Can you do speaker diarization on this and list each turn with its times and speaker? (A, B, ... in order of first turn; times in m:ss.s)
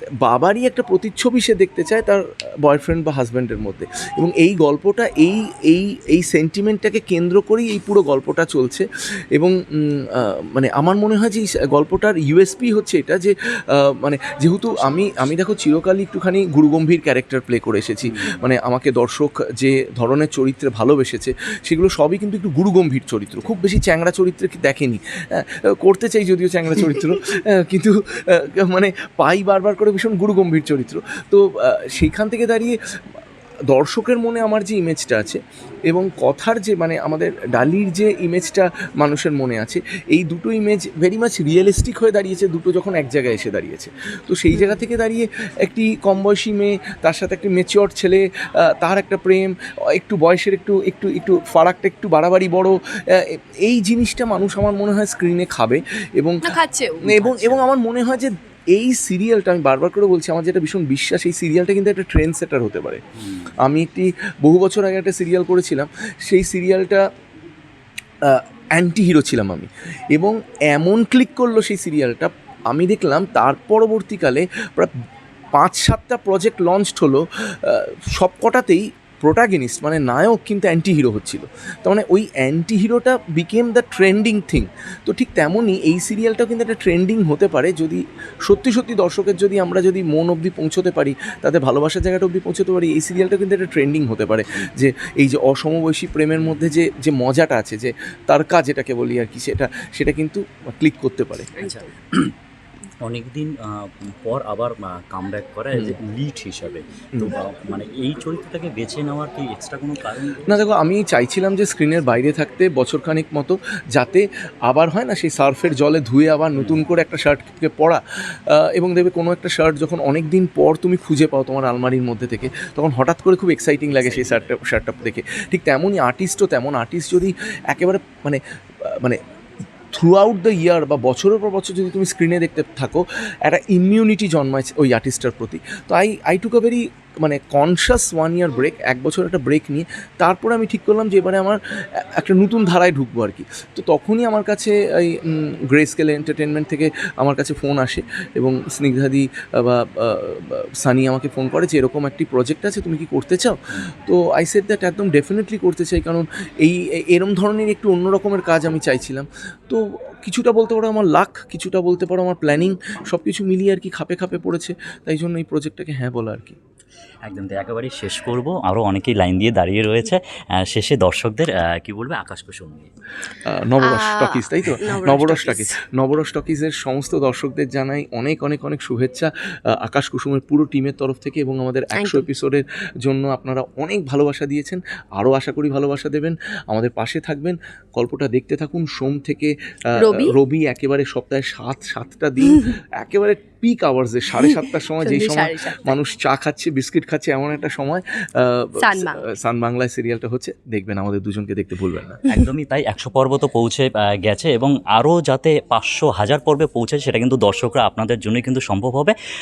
0:00.2-0:32.8 A
0:14.8-0:15.2 B
0:18.0-0:18.4 C
0:33.7-0:56.4 A
0:56.5-0:57.0 B
0:57.0-0:57.7 C
0:57.0-1:03.0 A
1:03.2-1:03.6 C
1:03.6-1:07.0 A
1:08.2-1:14.9 A
1:15.6-1:41.5 A
1:41.6-1:41.9 B
1:41.6-1:42.3 C
1:43.0-1:50.6 C
1:50.4-2:09.2 A
1:56.6-1:56.8 C
2:03.9-2:04.5 C
2:09.9-2:46.6 A
2:47.3-2:52.9 C
2:53.4-3:09.5 A
2:53.8-2:55.7 B
3:01.9-3:02.2 B
3:10.0-3:10.4 B
3:10.3-3:22.2 A
3:14.4-3:16.0 B
3:18.8-3:19.3 B
3:22.3-3:29.2 C